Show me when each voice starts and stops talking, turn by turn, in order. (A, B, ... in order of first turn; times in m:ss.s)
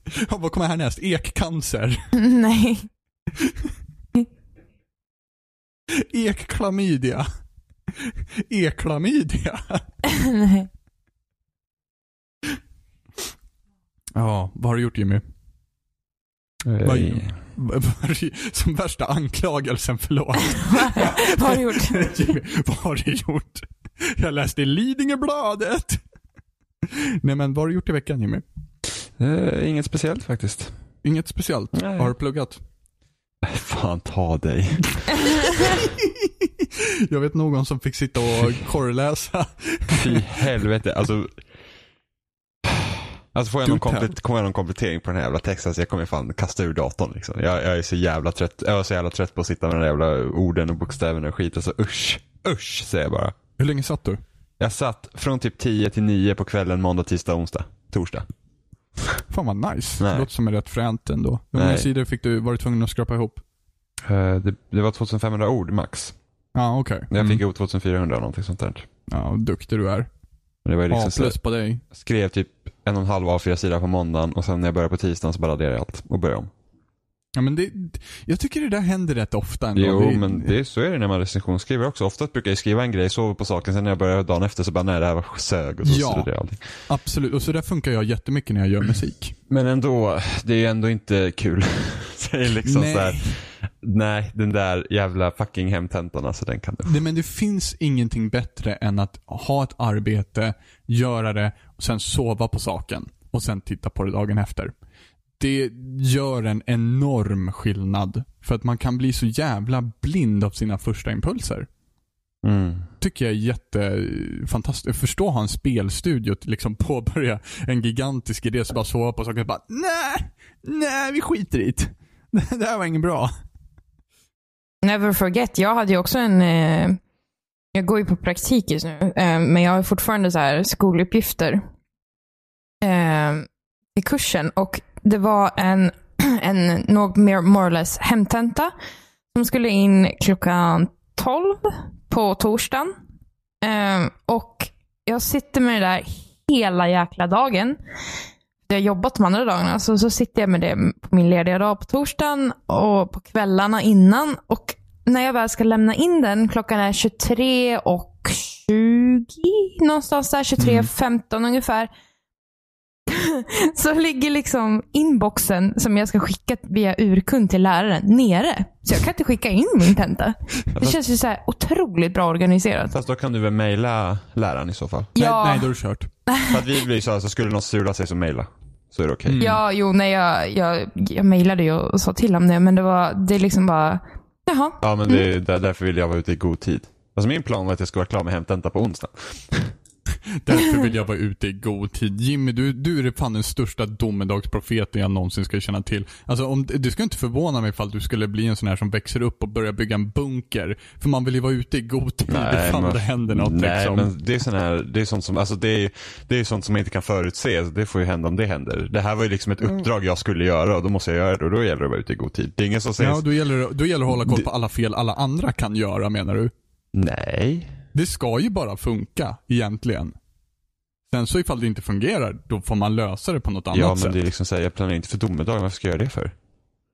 0:00.2-0:02.1 A
0:02.1-0:02.9 B
0:06.0-0:07.3 A
0:08.0-0:10.0 A
0:10.2-0:10.7 B
0:14.1-0:15.2 A
0:16.6-0:17.3 C
0:16.8-0:26.0 A
0:20.7-0:22.0 B
0:26.8-0:28.4 A
0:29.2-0:30.7 C
0:31.0-0:32.6 A
0:31.7-0:32.1 C
0:33.4-0:35.5 C
0:36.0-0:40.4 A
0:39.9-0:41.4 C
0:42.6-0:53.3 C
0:43.6-0:44.1 A
0:53.6-0:54.2 A
0:54.6-0:58.2 C
0:59.3-1:03.4 A
1:00.0-1:00.3 C
1:01.5-1:01.9 C
1:04.0-1:06.2 C
1:06.5-1:07.4 A
1:07.1-1:08.8 C
1:09.1-1:10.1 A
1:10.6-1:16.5 C
1:10.9-1:11.8 A
1:17.4-1:20.5 A
1:19.7-1:26.6 C
1:25.8-1:29.3 A
1:29.5-1:36.9 C
1:32.6-1:33.4 A
1:36.8-1:44.7 A
1:45.4-1:51.7 A
1:52.4-1:52.9 C
1:53.0-2:03.3 A
2:04.8-2:07.0 B
2:07.7-2:11.6 B
2:12.8-2:18.7 B
2:19.3-2:22.9 B
2:23.6-2:27.8 B
2:28.7-2:41.9 B
2:40.6-2:40.9 C
2:43.1-2:52.9 B
2:50.7-2:51.0 C
2:52.9-2:55.1 C
2:55.2-2:55.7 B
2:55.2-2:56.1 A
2:56.3-2:56.6 B
2:56.5-2:59.4 C
2:59.2-2:59.6 A
2:59.4-3:05.2 B
3:04.8-3:09.7 C
3:10.4-3:24.1 A
3:22.3-3:33.2 C
3:33.0-3:36.5 A
3:34.1-3:34.5 C
3:36.9-3:37.7 C
3:37.9-3:40.1 A
3:41.1-3:44.2 A
3:43.7-3:46.3 C